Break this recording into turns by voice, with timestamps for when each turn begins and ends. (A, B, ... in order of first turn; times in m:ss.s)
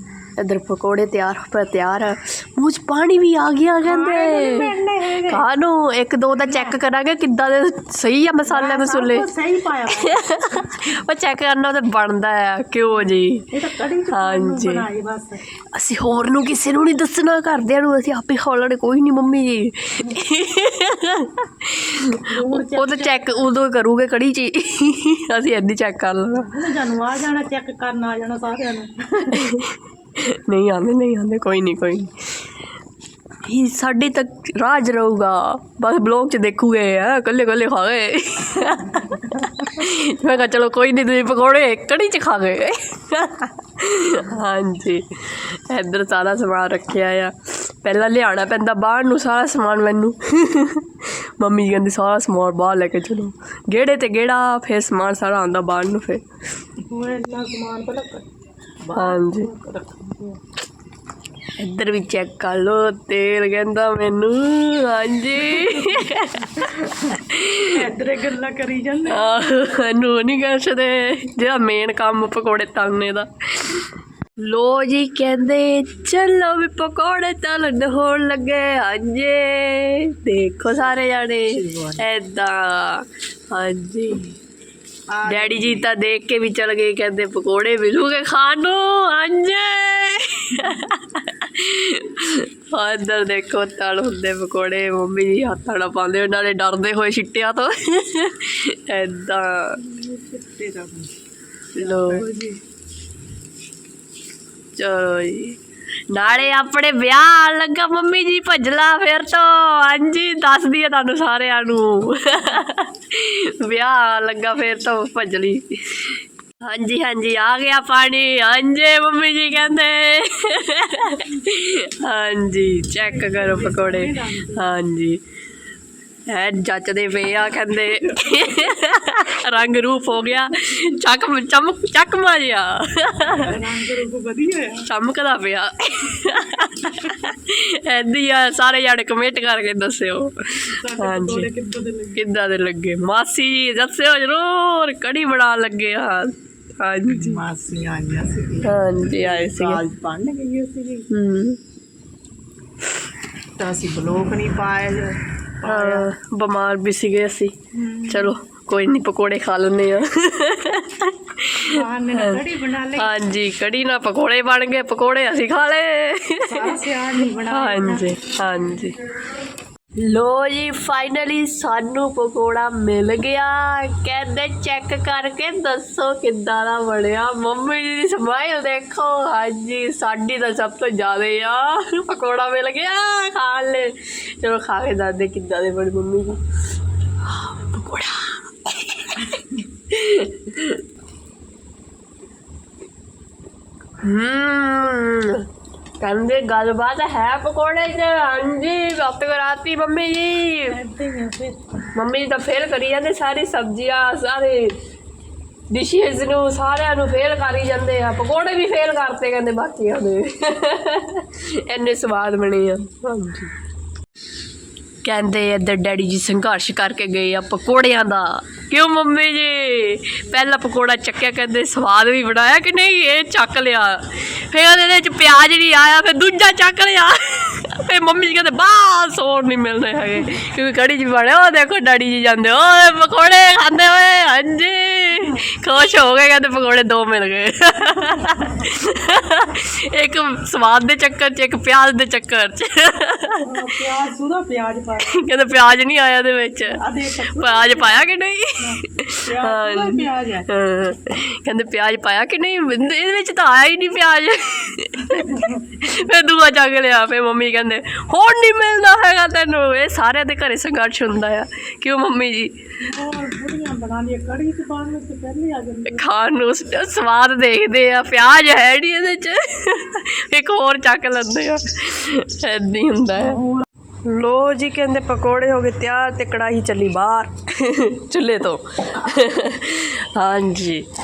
0:00.4-0:09.3 A
0:03.9-0:05.4 B
0:06.4-0:06.8 B
0:08.5-0:11.0 B
0:09.9-0:13.5 A
0:13.0-0:15.4 B
0:14.1-0:14.9 A
0:15.6-0:26.7 A
0:22.3-0:23.4 B
0:26.5-0:29.4 B
0:29.2-0:32.5 A
0:33.5-0:56.2 A
0:56.9-0:58.3 B
0:58.8-1:00.4 B
0:58.9-0:59.5 A
1:01.6-1:07.9 A
1:05.4-1:07.2 B
1:07.7-1:09.3 B
1:09.1-1:13.8 A
1:14.4-1:24.3 A
1:21.5-1:22.1 B
1:25.1-1:25.9 B
1:25.3-1:39.8 A
1:39.8-1:41.1 B
1:41.8-1:42.3 A
1:41.8-1:42.6 B
1:44.8-1:45.6 A
1:46.1-2:05.2 A
2:03.0-2:04.7 B
2:06.3-2:13.7 A
2:13.3-2:14.9 B
2:14.8-2:21.5 A
2:20.7-2:22.2 B
2:22.2-2:27.4 A
2:27.1-2:31.1 B
2:28.6-2:29.8 A
2:31.1-2:31.6 A
2:33.6-2:36.1 B
2:35.6-2:37.5 A
2:37.7-2:38.4 B
2:38.1-2:49.1 A
2:41.6-2:43.1 B
2:46.4-2:48.2 B
2:50.0-3:06.4 A
3:07.3-3:10.8 A
3:14.0-3:15.5 A
3:16.0-3:20.8 A
3:20.7-3:21.6 B
3:22.0-3:24.8 A
3:25.7-3:33.6 A
3:35.0-4:03.7 A
4:03.4-4:05.2 B
4:05.1-4:22.5 A
4:06.7-4:10.5 B
4:15.2-4:15.5 B
4:22.8-4:26.1 B
4:25.9-4:33.4 A
4:33.2-4:33.7 B
4:34.0-4:40.8 A